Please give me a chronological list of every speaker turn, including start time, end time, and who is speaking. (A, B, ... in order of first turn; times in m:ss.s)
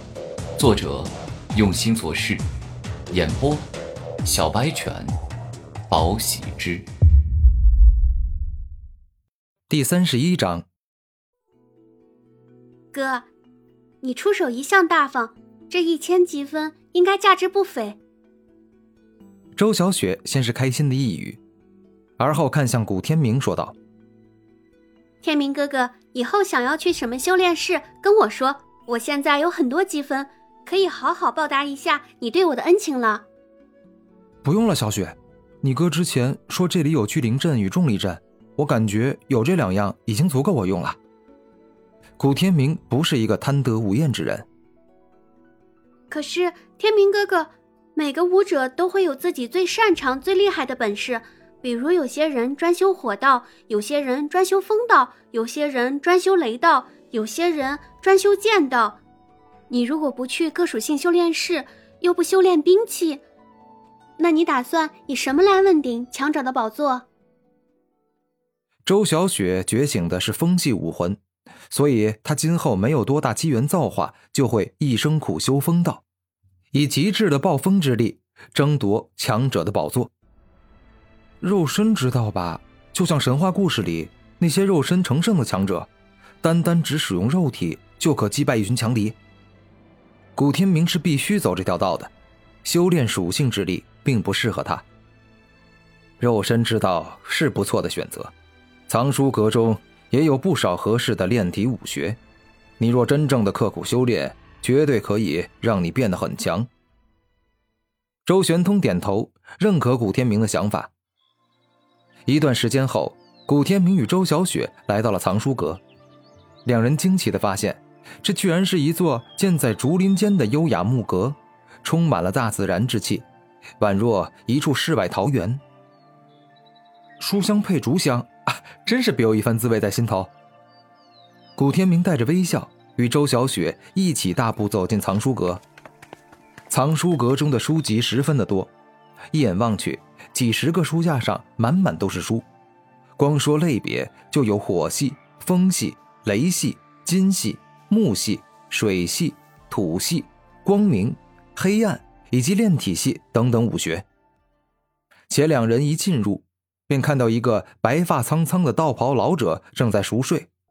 0:00.6-0:02.4 A
0:03.1-0:03.7 A
0:04.2-0:05.1 A
0:05.9-0:06.9 A
0:09.7-0:10.7 B
0:12.9-0:13.3 C
0:14.0-0:18.0 C
0:19.6-0:21.4 B
0:22.2-0:23.8 B
0:25.2-0:33.3 C
0:34.4-0:41.0 B
0:42.2-0:44.5 B
0:46.1-0:59.0 C
0:59.7-1:03.2 C
1:04.2-1:07.1 C
1:08.8-1:16.0 B
1:16.7-1:20.1 B
1:21.4-1:25.9 B
1:26.4-1:29.2 B
1:30.4-1:32.1 B
1:32.6-1:34.8 B
1:36.2-1:38.3 B
1:38.9-1:42.2 B
1:42.8-1:46.7 B
1:48.2-1:50.9 B
1:52.3-1:55.8 B
1:56.6-2:03.3 B
2:03.8-2:05.6 B
2:07.2-2:10.3 B
2:11.6-2:15.6 B
2:16.7-2:18.7 B
2:19.3-2:22.5 B
2:23.2-2:34.0 B
2:35.3-2:40.5 B